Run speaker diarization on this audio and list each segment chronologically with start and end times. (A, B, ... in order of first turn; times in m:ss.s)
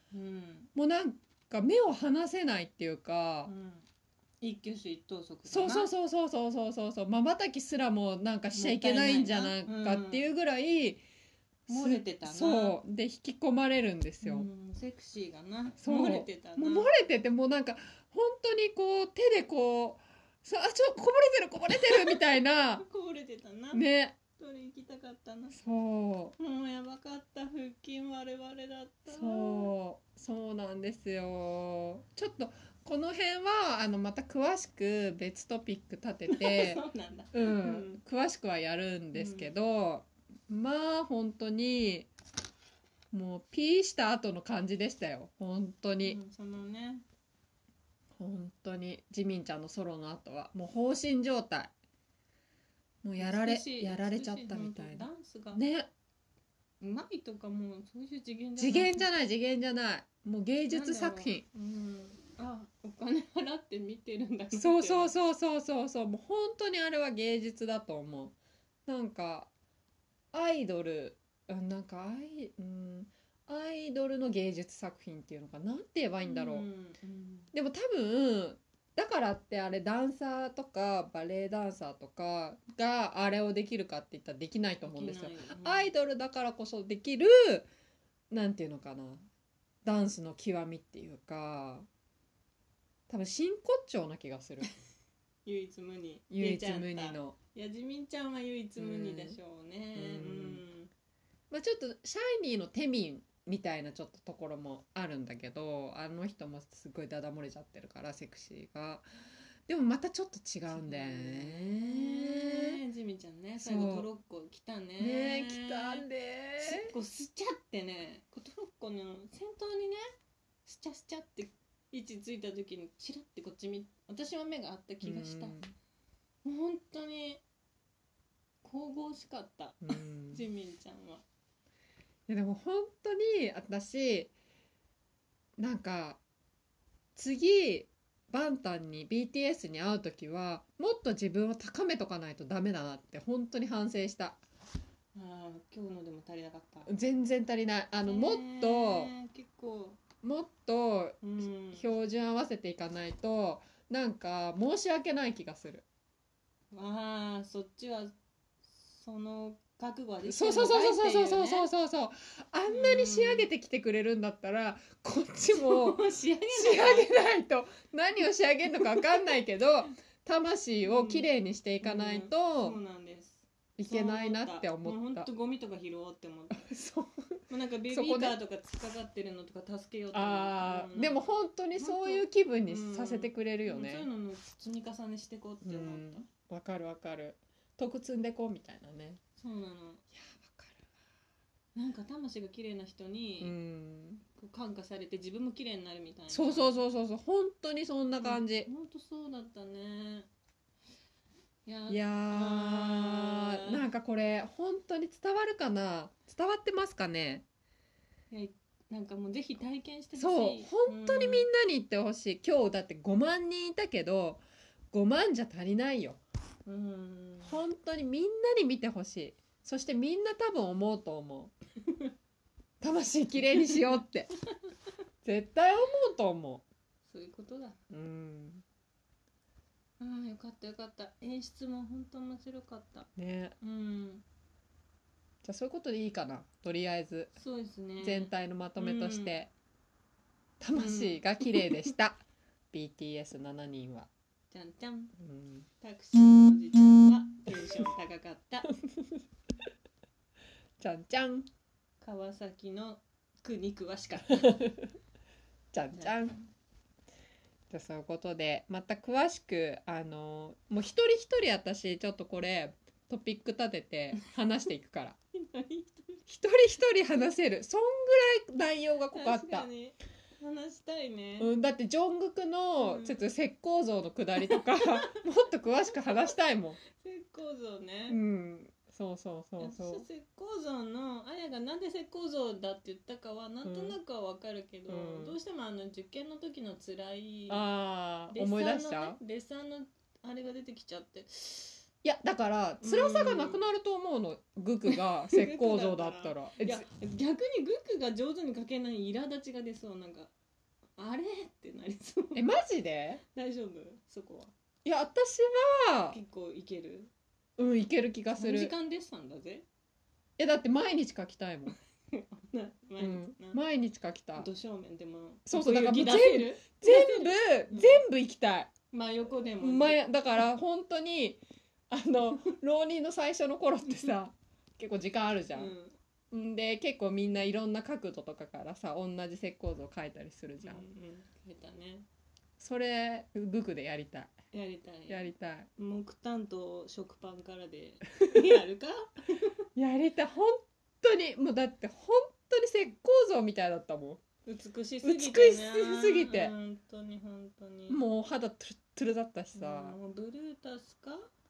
0:00.1-0:00.7 A
0:00.7-0:03.5 B
0:03.4-0:03.8 A
0:04.4-0:05.9 A
0:05.5-0:11.0 B
0:08.5-0:10.3 A
0:11.7-0:14.5 B
0:11.7-0:12.8 A
0:14.2-0:16.9 A
0:15.8-0:22.8 B
0:21.7-0:23.8 A
0:23.7-0:24.2 B
0:24.4-0:25.8 A
0:25.5-0:26.4 B
0:26.4-0:29.7 A
0:29.1-0:42.1 B
0:36.3-0:38.0 A
0:39.1-0:39.5 A
0:43.1-0:46.2 B
0:46.0-0:47.0 A
0:48.2-0:51.7 B
0:53.0-0:55.9 B
0:53.2-0:55.6 A
0:56.8-0:59.1 A
0:58.6-1:01.4 B
1:00.7-1:05.1 A
1:04.6-1:08.4 B
1:08.9-1:09.5 B
1:10.3-1:16.6 B
1:16.2-1:17.5 A
1:17.5-1:27.7 B
1:24.8-1:25.9 A
1:28.3-1:29.2 B
1:29.8-1:31.9 B
1:33.1-1:34.7 B
1:35.4-1:40.9 A
1:36.3-1:37.4 B
1:38.8-1:39.4 B
1:39.9-1:40.6 B
1:41.5-1:49.0 B
1:49.7-1:52.8 B
1:50.7-1:56.0 A
1:53.6-1:54.1 B
1:55.0-1:56.9 B
1:56.6-2:00.0 A
2:00.6-2:05.6 A
2:05.0-2:05.7 B
2:06.4-2:07.4 A
2:08.6-2:11.2 A
2:09.8-2:10.4 B
2:12.3-2:14.3 B
2:15.6-2:16.2 B
2:17.2-2:24.4 B
2:25.1-2:26.9 A
2:26.8-2:29.1 B
2:28.0-2:30.0 A
2:30.2-2:35.8 B
2:31.2-2:31.8 A
2:36.7-2:38.1 A
2:38.7-2:41.7 A
2:40.2-2:46.0 B
2:42.7-2:43.5 A
2:45.5-2:47.1 A
2:46.5-2:52.8 B
2:48.7-2:49.4 A
2:50.8-2:51.3 A
2:51.8-2:56.7 A
2:53.8-2:55.3 B
2:56.5-2:58.4 B
2:57.5-3:01.2 A
3:00.1-3:04.1 B
3:01.7-3:06.3 A
3:05.6-3:09.2 B
3:09.4-3:10.0 A
3:10.1-3:10.8 B
3:11.7-3:13.5 A
3:13.4-3:14.2 B
3:14.3-3:16.8 A
3:16.3-3:18.7 B
3:18.2-3:20.3 A
3:21.6-3:23.8 A
3:21.9-3:27.4 B
3:28.3-3:31.5 A
3:30.2-3:36.2 B
3:36.6-3:37.6 A
3:37.4-3:41.5 B
3:42.8-3:44.3 B
3:45.2-3:46.6 B
3:47.1-3:47.8 A
3:47.9-3:48.6 B
3:50.0-3:53.1 A
3:53.2-3:53.5 B
3:53.6-3:54.2 A
3:55.4-3:57.3 B
3:57.4-3:59.3 A
3:58.0-3:59.5 B
4:00.6-4:02.2 B
4:00.7-4:01.9 A
4:02.7-4:04.1 B
4:04.5-4:05.1 A
4:05.2-4:05.7 B
4:05.8-4:08.7 A
4:07.5-4:07.9 B
4:08.7-4:09.2 B
4:10.8-4:11.5 B
4:12.0-4:14.7 A
4:14.3-4:14.9 B
4:15.7-4:16.4 B
4:15.9-4:16.4 A
4:17.7-4:25.2 B
4:25.3-4:26.2 A
4:26.3-4:29.7 B
4:29.1-4:31.5 A
4:31.4-4:36.8 B
4:32.8-4:33.2 A
4:34.5-4:35.2 A
4:35.9-4:36.4 A
4:36.9-4:38.2 A
4:38.1-4:40.1 B
4:39.6-4:47.6 A
4:43.6-4:44.0 B
4:44.9-4:45.4 B
4:47.5-4:49.2 B
4:48.3-4:51.8 A
4:52.0-4:56.8 B
4:52.8-4:53.6 A
4:54.9-5:00.3 A
5:01.0-5:02.6 A
5:02.3-5:03.2 B
5:03.2-5:04.5 A
5:04.8-5:06.2 B
5:06.1-5:07.1 A
5:07.6-5:08.7 B
5:08.3-5:09.6 A
5:10.4-5:11.7 B
5:12.1-5:13.6 A
5:13.0-5:14.5 B
5:14.3-5:18.0 A
5:15.5-5:18.7 B
5:18.9-5:20.4 A
5:19.6-5:25.7 B
5:25.5-5:26.0 A
5:26.3-5:30.8 B
5:30.6-5:32.0 A
5:32.6-5:34.3 B
5:34.5-5:39.6 A
5:35.1-5:35.7 B
5:39.8-5:44.2 B
5:44.4-5:48.0 A
5:45.0-5:46.5 B
5:47.9-5:50.0 B
5:49.5-5:51.3 A